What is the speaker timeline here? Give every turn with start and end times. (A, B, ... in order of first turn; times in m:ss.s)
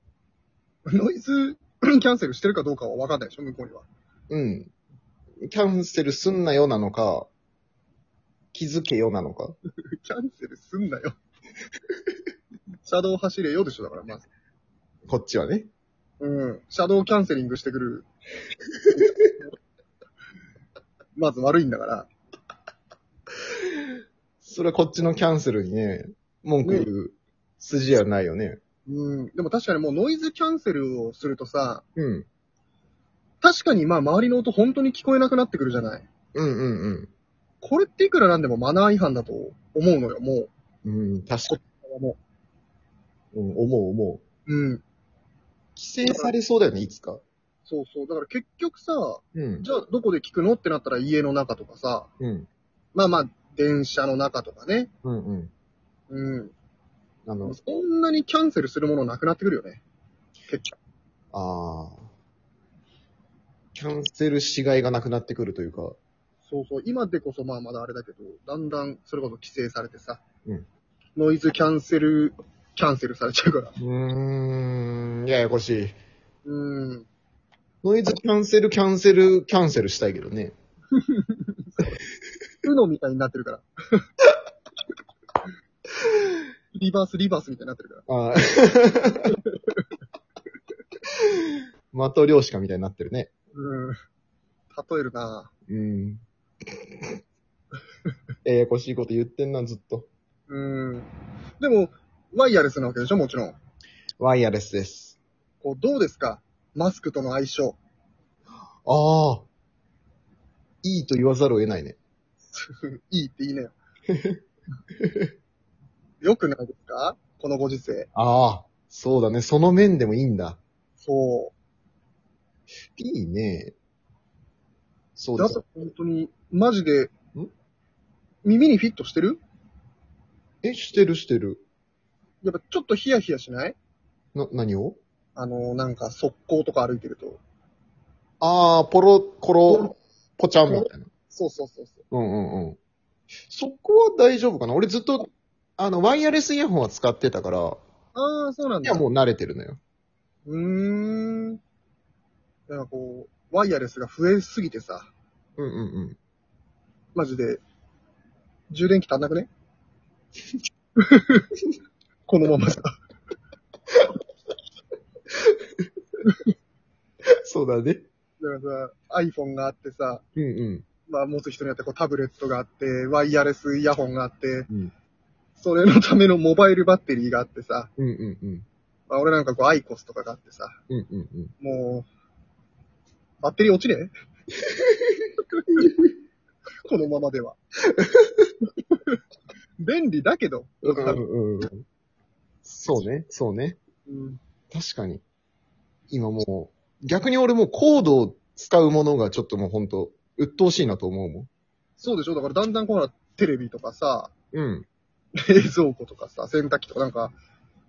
0:00.9-0:03.9 A
0:04.3-0:04.7 B
0:05.5-0:07.3 B
0:08.5-0:09.6 B
0:09.9-0:11.2 A
0:12.8-0:14.3 A
0:15.1-0:15.7 B
0:16.2-0:18.1 A
0:18.9-0:19.5 A
0:21.2-0:22.1 A
0:24.4-0:28.6 B
0:26.6-0:26.9 A
0:28.9-0:31.8 A
0:32.0-0:32.3 B
0:33.4-0:36.1 A
0:36.4-0:37.1 B
0:37.6-0:40.5 A
0:40.8-0:41.6 B
0:41.5-0:42.2 A
0:43.3-0:44.2 B
0:44.5-0:44.8 A
0:45.8-0:47.2 B
0:47.7-0:52.1 A
0:49.3-0:49.6 B
0:52.2-0:52.5 B
0:53.0-0:54.9 A
0:55.0-0:55.5 B
0:56.1-0:56.5 A
0:57.3-0:57.6 B
0:57.4-0:59.8 A
1:00.5-1:00.8 A
1:01.3-1:02.1 B
1:03.8-1:06.0 B
1:06.5-1:10.2 A
1:11.2-1:13.7 A
1:13.8-1:16.0 B
1:16.4-1:17.1 A
1:17.8-1:20.6 B
1:20.9-1:22.0 A
1:22.6-1:24.1 A
1:26.7-1:28.0 A
1:28.1-1:29.4 B
1:29.3-1:29.8 A
1:31.2-1:33.3 B
1:33.6-1:34.0 A
1:34.7-1:35.5 A
1:35.7-1:36.2 B
1:36.8-1:37.1 B
1:38.4-1:40.1 B
1:40.5-1:43.6 A
1:44.2-1:45.2 B
1:45.6-1:47.8 A
1:48.9-1:49.5 B
1:50.8-1:52.0 B
1:52.5-1:53.8 A
1:54.1-1:54.4 B
1:55.0-1:55.3 B
1:56.2-1:58.1 A
1:58.2-2:00.6 B
2:01.0-2:01.5 A
2:03.0-2:03.8 B
2:05.2-2:05.6 B
2:05.4-2:07.1 A
2:08.4-2:09.4 A
2:10.6-2:11.6 B
2:12.4-2:13.8 A
2:14.4-2:15.0 B
2:15.4-2:17.4 A
2:18.4-2:21.1 B
2:19.7-2:19.9 A
2:20.7-2:22.0 A
2:22.1-2:22.8 B
2:23.5-2:25.3 B
2:25.8-2:27.8 B
2:28.2-2:29.1 A
2:28.8-2:29.8 B
2:30.5-2:31.6 A
2:32.7-2:35.1 A
2:35.6-2:36.2 B
2:37.2-2:37.6 A
2:38.7-2:39.5 A
2:41.0-2:41.5 A
2:42.3-2:43.0 A
2:47.4-2:48.1 B
2:48.4-2:50.2 A
2:50.4-2:50.9 B
2:51.1-2:54.7 A
2:55.6-2:57.9 A
2:58.0-2:58.7 B
2:59.1-3:00.8 A
3:00.9-3:01.5 B
3:01.6-3:02.1 A
3:03.4-3:04.1 A
3:04.8-3:05.2 B
3:05.6-3:05.8 A
3:06.8-3:07.6 A
3:08.0-3:08.4 B
3:08.9-3:09.2 A
3:09.8-3:11.2 A
3:10.8-3:11.8 B
3:12.6-3:13.8 B
3:14.1-3:14.4 A
3:14.7-3:15.2 B
3:16.1-3:21.5 B
3:22.0-3:24.3 A
3:24.5-3:24.9 B
3:25.4-3:27.4 A